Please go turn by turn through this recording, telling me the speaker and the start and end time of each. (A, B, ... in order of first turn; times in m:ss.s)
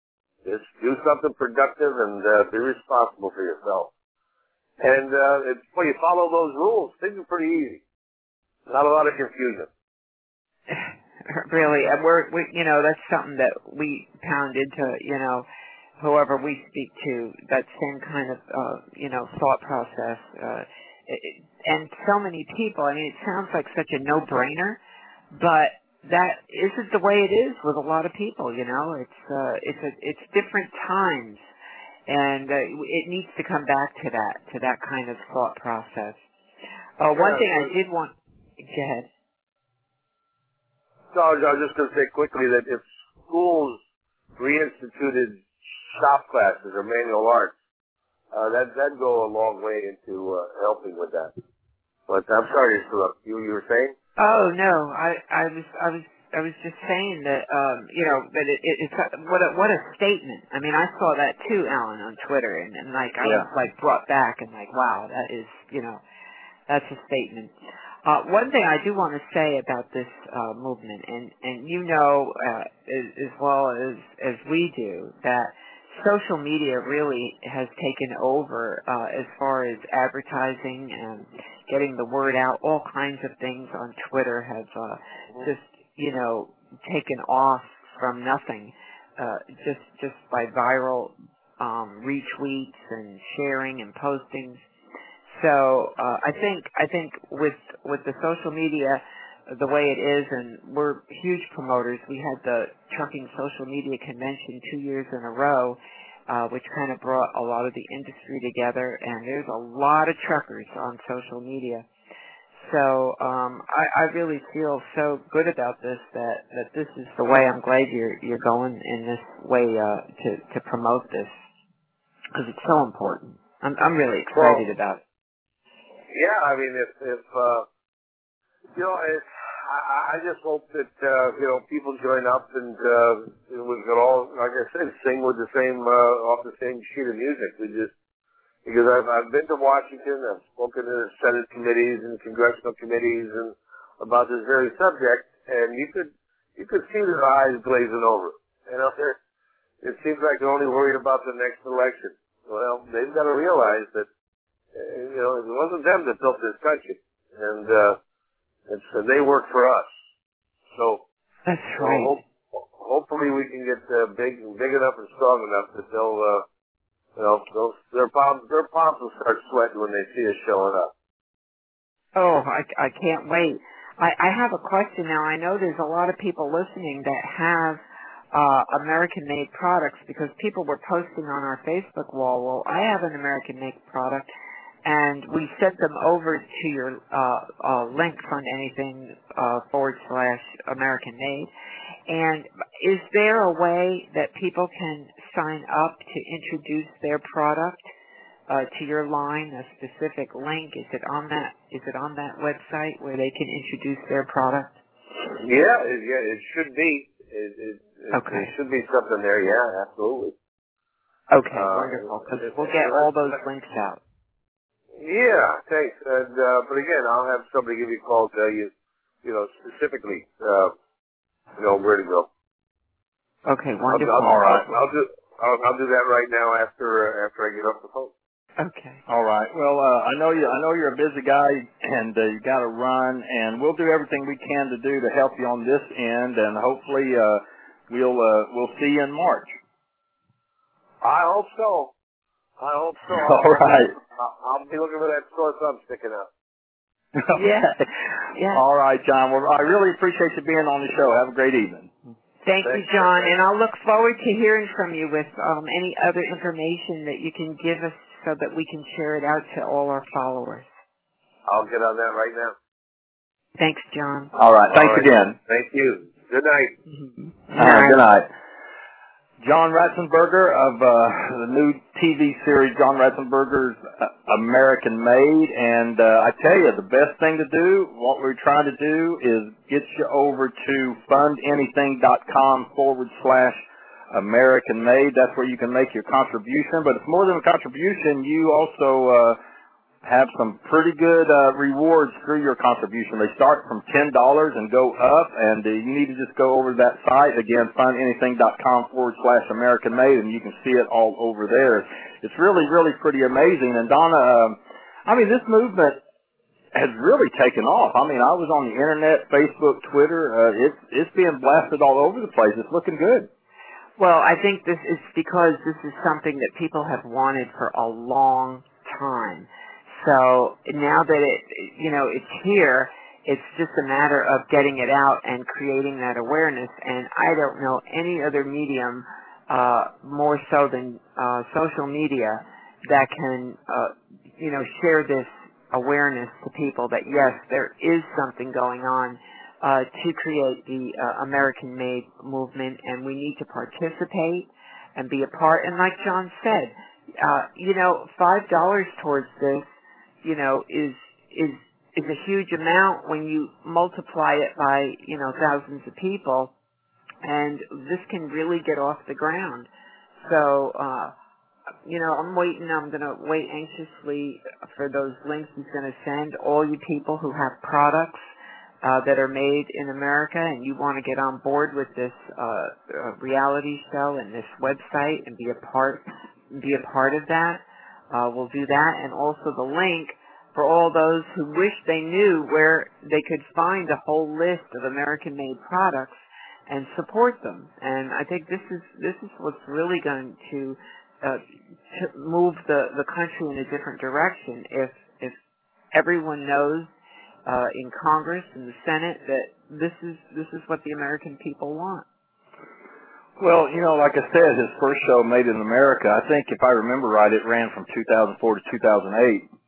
0:00.4-0:03.9 A
0:04.8-0:07.8 A
0:08.7-0:09.7 A
0:10.7-0:15.4 B
0:16.0-0:24.8 B
0:25.3-0:31.4 B
0:32.1-0:36.2 B
0:37.0-0:39.1 B
0:37.1-0:37.7 A
0:41.1-0:43.8 A
0:44.4-0:45.4 A
0:45.9-0:47.5 A
0:48.3-0:51.3 A
0:52.1-0:53.9 A
0:54.2-1:06.0 B
1:06.7-1:07.5 B
1:08.0-1:34.6 B
1:35.4-1:51.8 B
1:52.6-2:01.3 B
2:02.3-2:05.0 B
2:04.3-2:04.6 A
2:06.1-2:07.6 A
2:08.8-2:17.9 A
2:18.6-2:29.2 A
2:29.8-2:34.1 A
2:34.7-2:38.0 A
2:38.7-2:39.8 A
2:40.7-2:41.0 A
2:41.4-2:42.2 B
2:41.8-2:46.4 A
2:47.2-2:50.9 A
2:52.1-2:57.8 B
2:58.3-3:04.3 B
3:04.8-3:11.5 B
3:12.1-3:17.8 B
3:18.5-3:24.8 B
3:25.4-3:30.3 A
3:28.1-3:28.5 B
3:31.3-3:34.0 B
3:31.5-3:33.1 A
3:35.0-3:38.7 A
3:39.2-3:40.7 A
3:41.6-3:42.3 A
3:43.4-3:44.5 B
3:43.9-3:48.1 A
3:44.2-3:44.6 C
3:48.6-3:49.0 B
3:49.1-3:59.5 C
4:01.0-4:01.9 A
4:02.6-4:06.3 A
4:03.1-4:03.9 C
4:07.2-4:07.7 C
4:07.3-4:07.7 B
4:08.3-4:08.6 B
4:08.5-4:11.9 C
4:12.4-4:20.7 B
4:12.6-4:13.4 A
4:21.4-4:22.5 A
4:23.6-4:24.3 B
4:24.3-4:25.4 C
4:24.7-4:26.8 A
4:27.5-4:28.0 B
4:27.5-4:28.3 C
4:29.4-4:43.6 C
4:44.1-4:49.4 C
4:50.0-5:06.0 C
5:06.7-5:13.3 C
5:14.0-5:19.5 B
5:20.0-5:49.6 B
5:50.2-5:56.5 B
5:57.2-5:59.7 B
6:00.2-6:01.1 B
6:01.8-6:08.2 B
6:08.8-6:26.1 B
6:26.7-6:35.4 B
6:35.9-6:36.9 B
6:37.4-6:42.0 B
6:43.4-6:49.4 C